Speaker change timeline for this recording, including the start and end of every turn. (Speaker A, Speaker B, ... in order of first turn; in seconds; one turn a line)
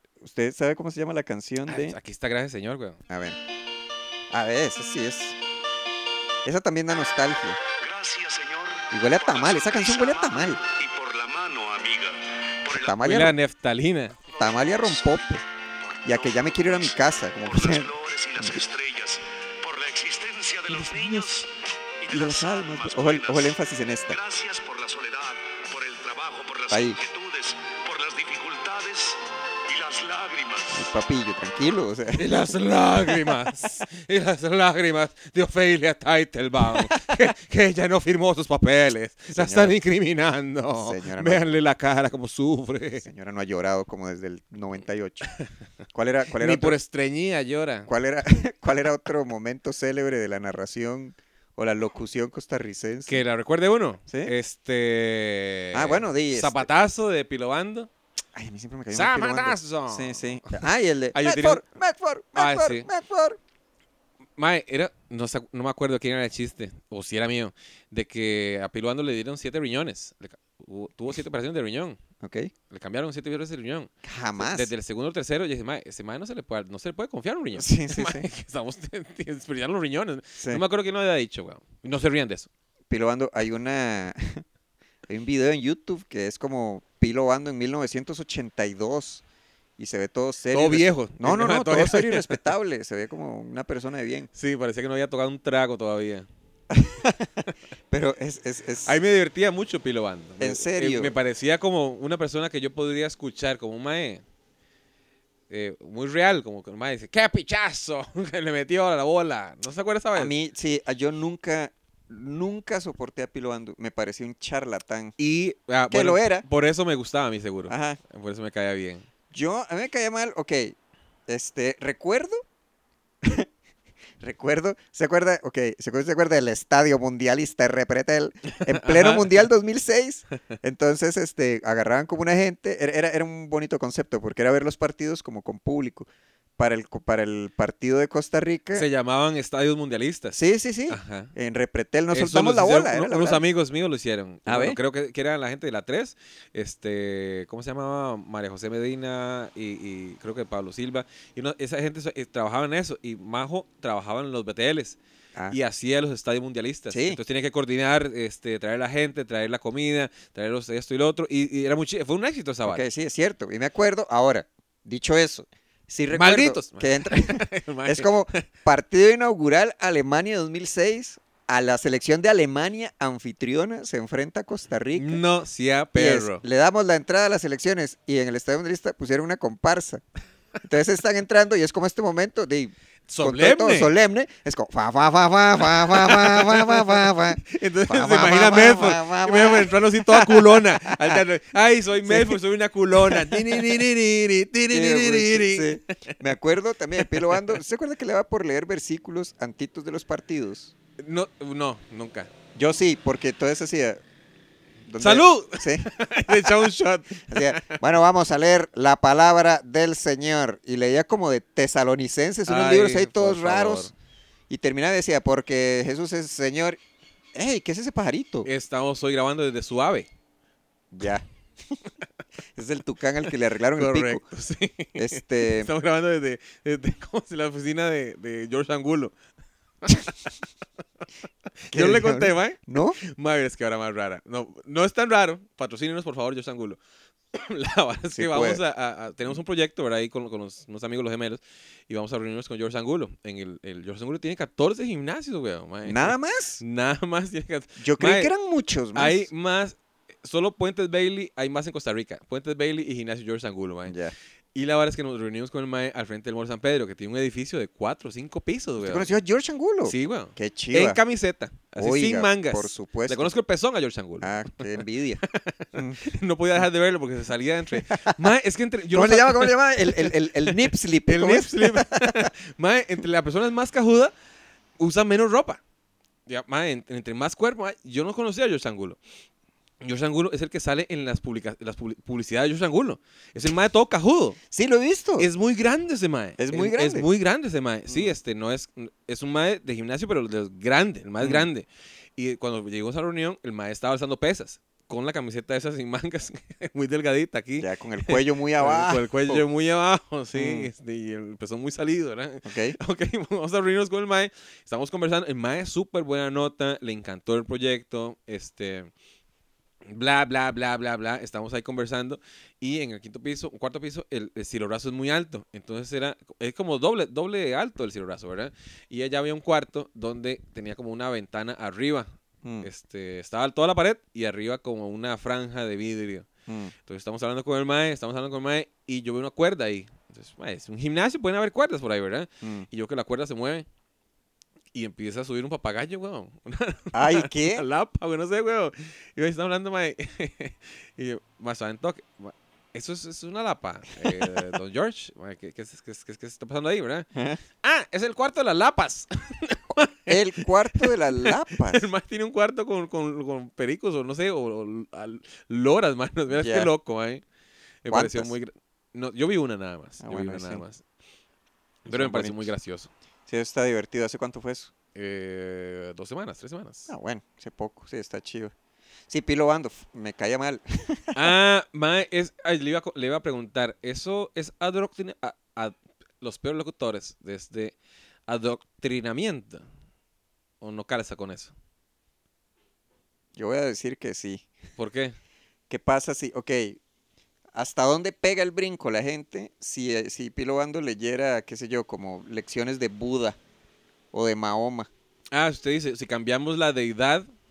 Speaker A: 0.2-2.0
Speaker B: 1.7-3.0
Speaker A: 3.1-3.4
Speaker A: 4.3-5.4
Speaker A: 6.5-7.6
Speaker C: 7.8-13.1
Speaker A: 8.9-10.6
Speaker A: 12.7-13.4
Speaker B: 13.0-14.2
Speaker A: 14.3-15.4
Speaker C: 15.8-23.6
Speaker A: 16.1-18.6
Speaker A: 20.7-21.4
Speaker A: 22.1-24.2
Speaker C: 24.1-30.8
Speaker A: 26.7-27.0
Speaker A: 30.7-32.3
Speaker B: 32.1-43.1
Speaker A: 39.3-39.7
Speaker A: 40.8-41.5
Speaker A: 43.0-45.3
Speaker A: 45.9-46.8
Speaker B: 46.4-47.9
Speaker A: 47.9-53.2
Speaker B: 53.1-57.9
Speaker A: 54.1-54.3
Speaker A: 55.7-56.6
Speaker A: 58.4-63.4
Speaker B: 58.9-61.6
Speaker B: 62.4-62.9
Speaker B: 64.4-72.0
Speaker A: 72.2-72.5
Speaker B: 72.7-82.5
Speaker A: 74.0-74.7
Speaker A: 77.5-78.3
Speaker A: 82.9-84.5
Speaker A: 85.1-89.2
Speaker A: 89.8-94.3
Speaker B: 90.5-92.4
Speaker B: 94.3-96.3
Speaker A: 96.7-97.3
Speaker A: 97.9-99.0
Speaker B: 98.9-104.2
Speaker A: 100.4-101.1
Speaker B: 105.5-110.3
Speaker A: 110.2-115.2
Speaker B: 115.2-119.1
Speaker A: 115.9-116.5
Speaker A: 117.7-118.0
Speaker A: 119.3-120.8
Speaker A: 121.3-122.4
Speaker A: 123.2-123.5
Speaker A: 124.2-138.9
Speaker B: 128.6-129.3
Speaker B: 138.7-141.3
Speaker A: 140.3-143.4
Speaker B: 142.1-155.0
Speaker A: 144.5-144.8
Speaker B: 155.5-162.8
Speaker A: 156.9-157.2
Speaker A: 162.7-175.2
Speaker B: 166.1-168.4
Speaker B: 174.9-176.4
Speaker A: 175.9-180.0
Speaker A: 180.6-191.2
Speaker B: 183.1-183.9
Speaker B: 185.9-196.2
Speaker A: 192.1-192.4
Speaker A: 193.0-193.6
Speaker A: 194.7-200.7
Speaker B: 197.0-197.4
Speaker B: 201.0-202.3
Speaker A: 202.6-204.0
Speaker A: 204.8-206.7
Speaker B: 205.0-207.8
Speaker A: 207.3-213.9
Speaker B: 212.5-213.9
Speaker A: 214.5-216.8
Speaker A: 217.3-218.5
Speaker B: 218.4-220.1
Speaker A: 220.9-221.2
Speaker A: 222.6-224.2
Speaker B: 223.8-229.2
Speaker A: 224.9-225.7
Speaker B: 231.7-236.8
Speaker A: 231.7-233.0
Speaker B: 237.3-248.3
Speaker A: 238.2-238.6
Speaker A: 245.8-246.6
Speaker A: 247.8-249.3
Speaker B: 248.9-254.0
Speaker A: 253.9-254.2
Speaker B: 254.5-259.1
Speaker A: 258.8-261.0
Speaker B: 259.9-264.7
Speaker A: 261.8-263.3
Speaker A: 264.2-265.2
Speaker B: 265.3-274.1
Speaker A: 265.7-266.0
Speaker A: 268.9-272.3
Speaker B: 274.8-275.6
Speaker B: 276.3-279.0
Speaker B: 279.8-284.4
Speaker A: 284.5-285.3
Speaker B: 285.2-308.9
Speaker A: 286.4-287.1
Speaker A: 287.9-288.1
Speaker A: 291.2-291.5
Speaker A: 297.6-299.4
Speaker A: 300.3-300.7
Speaker A: 302.4-302.8
Speaker B: 309.9-322.1
Speaker A: 322.4-322.7
Speaker B: 322.6-326.3
Speaker A: 326.5-326.7
Speaker B: 326.9-333.7
Speaker A: 332.4-332.7
Speaker B: 334.7-347.1
Speaker A: 336.9-337.6
Speaker A: 347.1-347.4
Speaker B: 347.6-350.2
Speaker A: 350.1-351.9
Speaker B: 350.8-357.2
Speaker A: 356.3-356.7
Speaker B: 357.8-360.8
Speaker A: 357.9-358.3
Speaker A: 360.0-360.6
Speaker B: 361.9-362.9
Speaker A: 361.9-362.5
Speaker A: 363.3-364.7
Speaker B: 364.9-366.9
Speaker A: 366.9-368.5
Speaker A: 369.1-371.2
Speaker B: 371.1-377.8
Speaker B: 378.3-379.6
Speaker B: 380.6-381.5
Speaker A: 383.4-384.5
Speaker B: 384.8-385.2
Speaker A: 385.7-386.8
Speaker A: 387.5-393.4
Speaker A: 394.1-394.9
Speaker B: 395.3-397.3